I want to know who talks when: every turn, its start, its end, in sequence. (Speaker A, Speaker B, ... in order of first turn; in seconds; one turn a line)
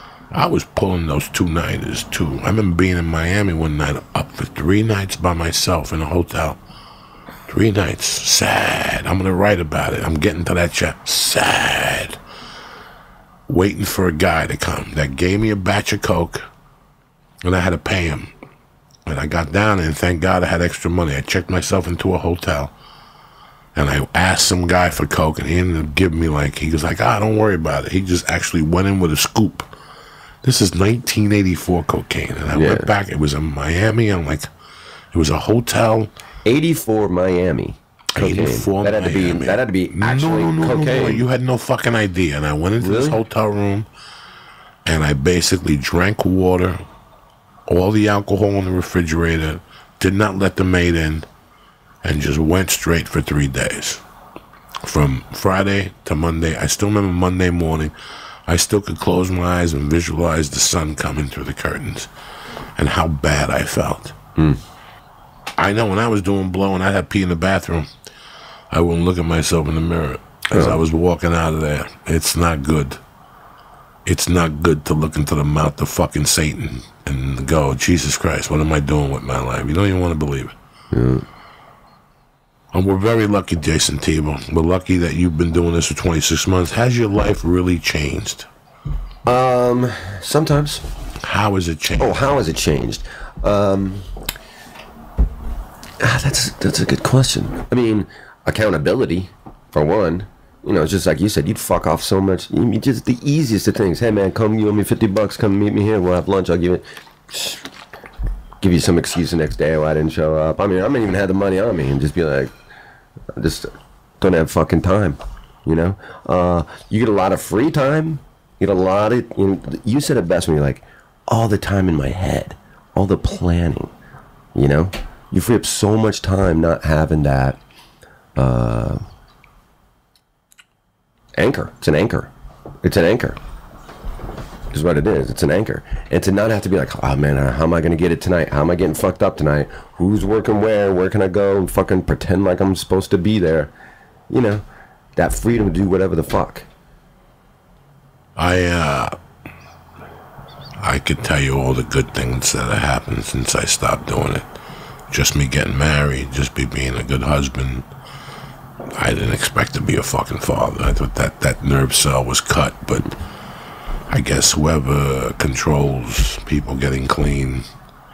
Speaker A: 0.3-6.6
Speaker A: 7.5-12.2
Speaker A: 13.5-16.4
Speaker A: 17.4-18.3
Speaker A: 19.1-22.7
Speaker A: 23.7-29.7
Speaker A: 30.4-34.5
Speaker B: 32.5-32.9
Speaker A: 35.1-36.1
Speaker B: 36.5-41.2
Speaker A: 38.1-43.9
Speaker B: 42.8-43.2
Speaker A: 44.9-46.8
Speaker A: 47.7-51.3
Speaker A: 52.0-54.0
Speaker A: 54.8-57.9
Speaker A: 58.5-62.1
Speaker A: 62.8-64.2
Speaker A: 65.6-67.9
Speaker A: 68.7-73.0
Speaker B: 70.5-70.8
Speaker A: 74.1-80.5
Speaker B: 80.9-81.2
Speaker A: 82.7-88.5
Speaker B: 89.3-90.8
Speaker A: 91.2-92.2
Speaker B: 92.0-94.1
Speaker B: 96.0-107.7
Speaker B: 108.6-112.5
Speaker B: 113.3-123.9
Speaker B: 124.5-127.6
Speaker B: 128.3-129.0
Speaker B: 131.4-132.3
Speaker B: 132.8-133.4
Speaker B: 134.7-143.7
Speaker B: 144.3-144.6
Speaker B: 145.2-146.7
Speaker A: 148.4-149.1
Speaker A: 150.8-154.4
Speaker A: 155.1-157.9
Speaker A: 158.9-163.1
Speaker A: 164.1-167.7